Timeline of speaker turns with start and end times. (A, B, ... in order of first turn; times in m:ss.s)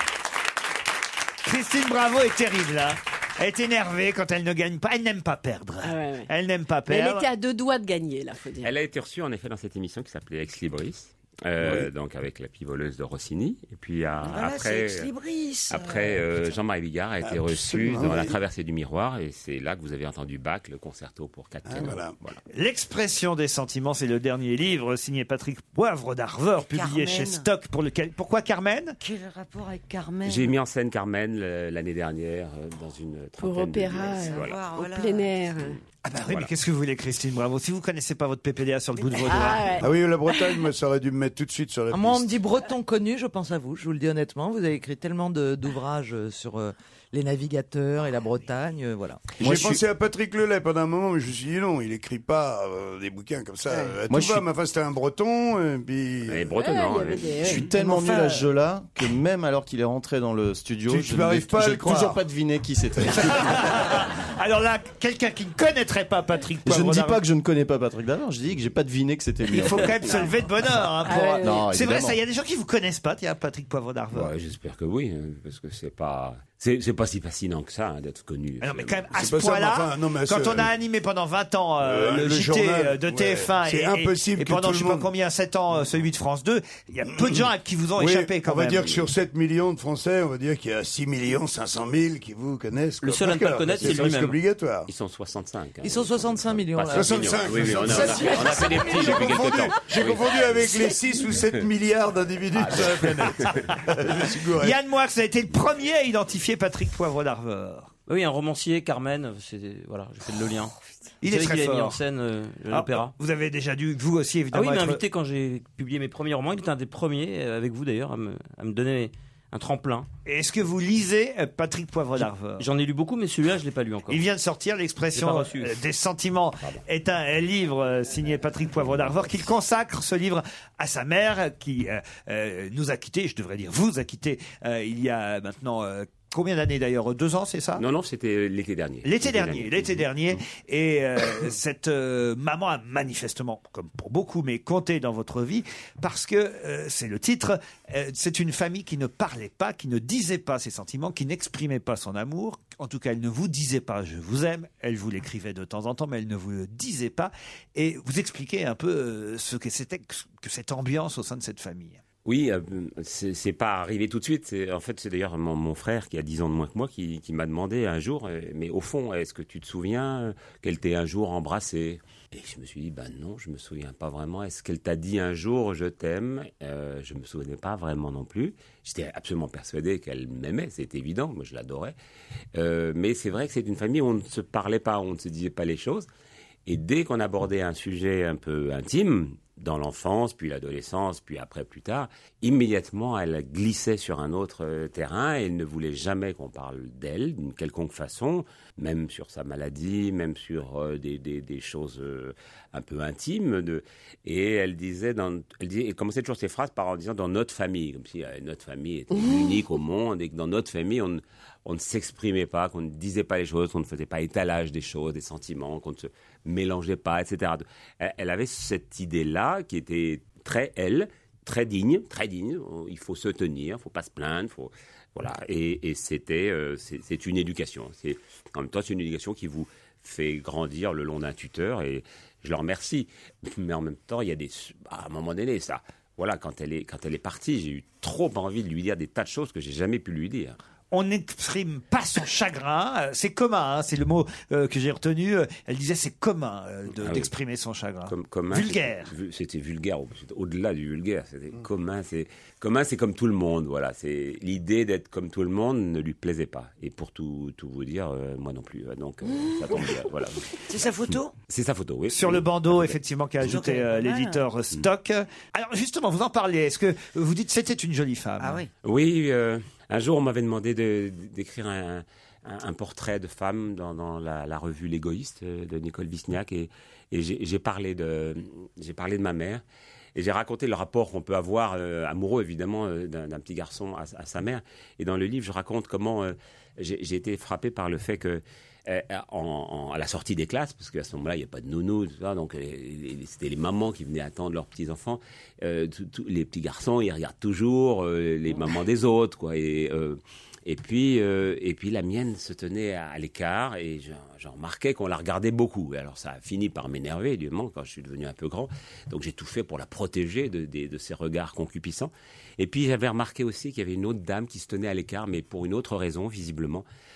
0:01.4-0:07.2 A
0:05.8-0:06.3 B
0:06.9-0:08.7 B
0:08.6-0:15.1 C
0:11.6-0:11.9 D
0:14.2-0:16.2 E
0:15.7-0:22.4 C
0:17.2-0:18.4 D
0:21.6-0:22.2 D
0:22.5-0:29.0 A
0:26.6-0:27.5 E
0:29.0-0:30.5 E
0:30.2-0:34.6 C
0:33.4-0:35.8 B
0:34.1-0:35.3 E
0:36.0-0:39.8 A
0:39.0-0:40.6 B
0:39.8-0:42.4 D
0:41.9-0:49.2 F
0:49.4-0:56.5 D
0:49.4-0:49.8 G
0:54.1-0:54.4 G
0:56.3-0:57.3 C
0:56.6-0:57.7 B
0:57.4-1:03.9 G
0:58.0-0:58.3 E
1:00.9-1:02.2 D
1:03.4-1:07.2 A
1:06.6-1:10.2 G
1:09.5-1:14.3 A
1:11.0-1:11.6 B
1:11.4-1:12.2 G
1:14.1-1:19.1 C
1:18.6-1:28.9 A
1:19.1-1:20.7 D
1:21.8-1:25.1 D
1:27.2-1:27.4 D
1:28.0-1:34.9 D
1:33.0-1:34.4 H
1:34.9-1:40.8 C
1:35.8-1:39.1 F
1:36.9-1:44.8 D
1:42.6-1:43.6 C
1:44.6-1:47.9 A
1:48.1-1:53.1 H
1:51.2-1:52.0 A
1:52.7-1:55.0 A
1:54.5-2:00.1 H
2:00.2-2:02.6 A
2:02.2-2:04.2 H
2:04.1-2:17.8 A
2:05.1-2:05.8 H
2:17.8-2:20.0 C
2:19.0-2:42.0 A
2:42.2-3:02.0 C
3:02.5-3:06.1 C
3:06.6-4:00.6 C
4:00.9-4:09.1 A
4:06.9-4:07.3 C
4:08.1-4:20.4 C
4:20.7-4:21.3 E
4:21.5-4:23.0 C
4:22.1-4:28.6 A
4:23.4-4:24.4 E
4:28.4-4:28.7 E
4:28.8-4:39.6 C
4:40.1-5:16.8 C